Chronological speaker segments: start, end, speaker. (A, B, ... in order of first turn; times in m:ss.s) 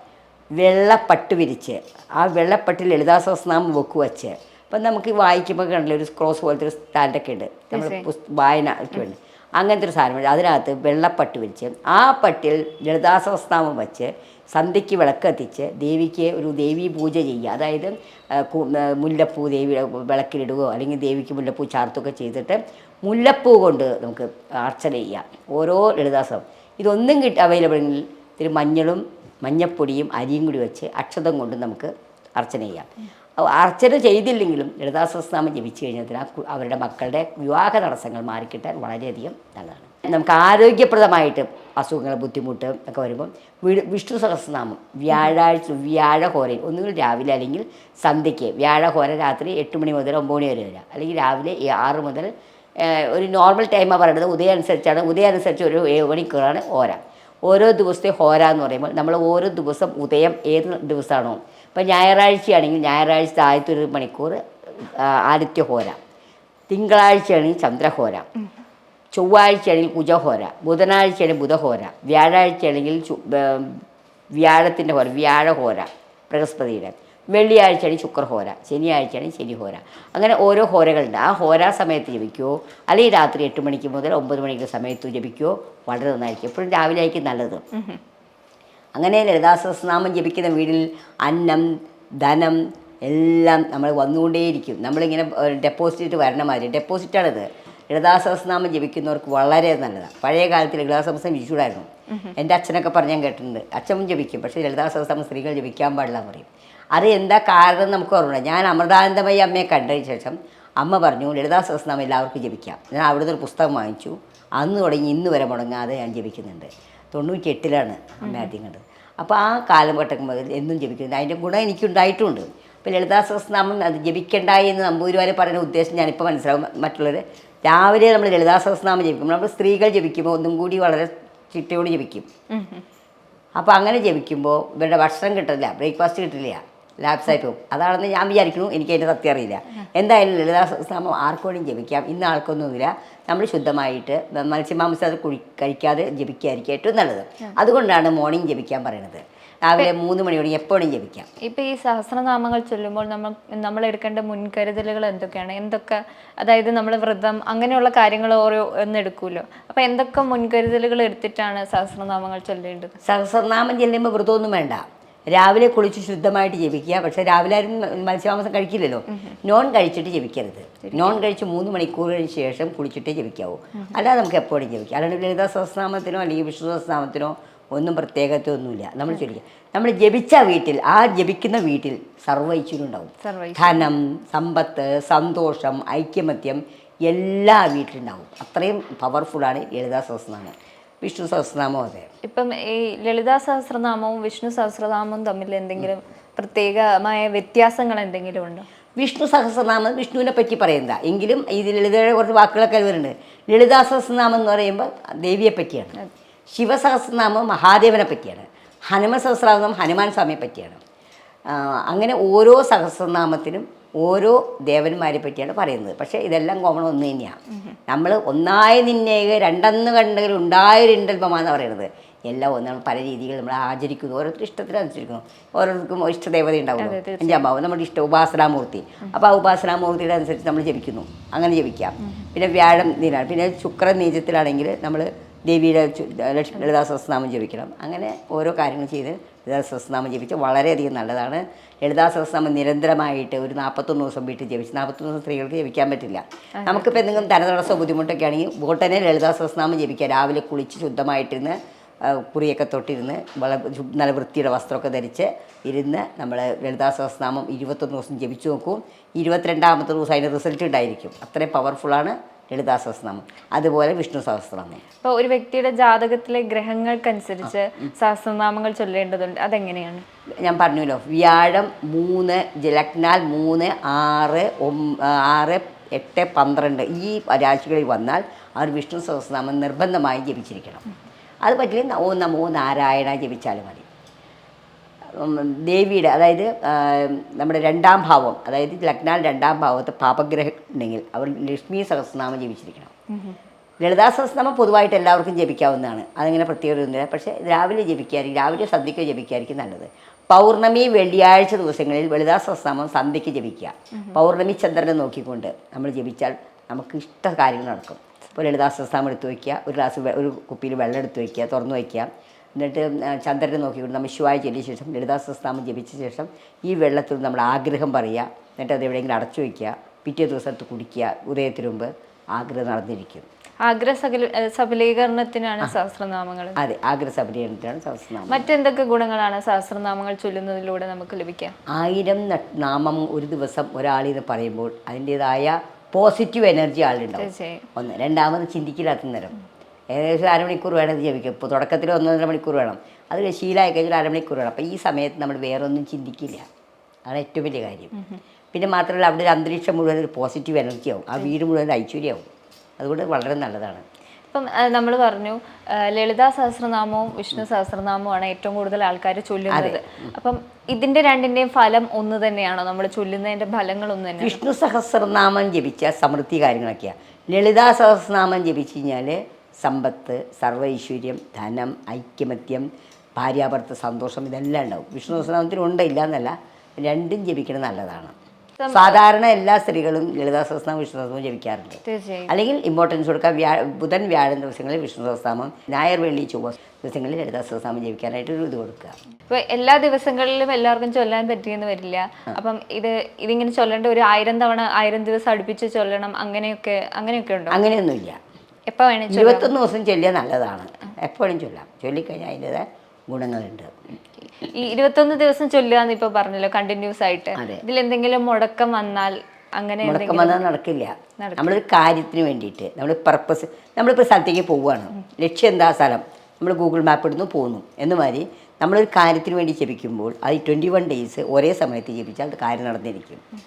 0:00.6-1:06.0 A
0:07.7-0:08.1 B
1:06.7-1:08.3 A
1:09.1-1:27.6 A
1:27.7-1:28.0 B
1:29.0-2:12.3 A
1:58.2-1:58.5 B
2:12.5-2:12.8 B
2:13.6-2:31.3 A
2:31.4-2:43.0 B
2:43.0-3:12.1 A
2:50.8-2:51.2 B
3:03.2-3:03.9 B
3:12.2-3:18.7 B
3:19.0-3:26.0 A
3:26.5-3:30.8 A
3:31.5-4:24.8 A
3:46.8-3:47.5 B
4:06.6-4:07.3 B
4:25.0-4:30.1 B
4:30.4-4:40.8 A
4:41.4-4:43.9 A
4:45.1-4:52.9 A
4:53.1-4:53.4 B
4:53.8-5:23.3 A
5:23.6-5:26.6 B
5:26.6-5:28.5 A
5:28.3-5:31.6 B
5:31.7-5:39.4 A
5:37.2-5:37.7 B
5:39.9-5:46.5 A
5:47.1-5:47.9 A
5:48.0-5:48.2 B
5:48.5-5:52.3 A
5:52.8-5:53.8 A
5:54.3-6:04.4 B
5:59.5-6:00.1 A
6:04.2-6:18.2 A
6:18.6-6:19.0 B
6:18.7-6:29.0 A
6:21.8-6:22.3 B
6:29.3-6:37.6 B
6:37.5-6:38.2 A
6:38.7-6:39.5 B
6:39.1-6:43.7 A
6:44.4-6:50.4 B
6:47.4-6:47.6 A
6:49.8-7:03.2 A
6:51.2-6:51.6 B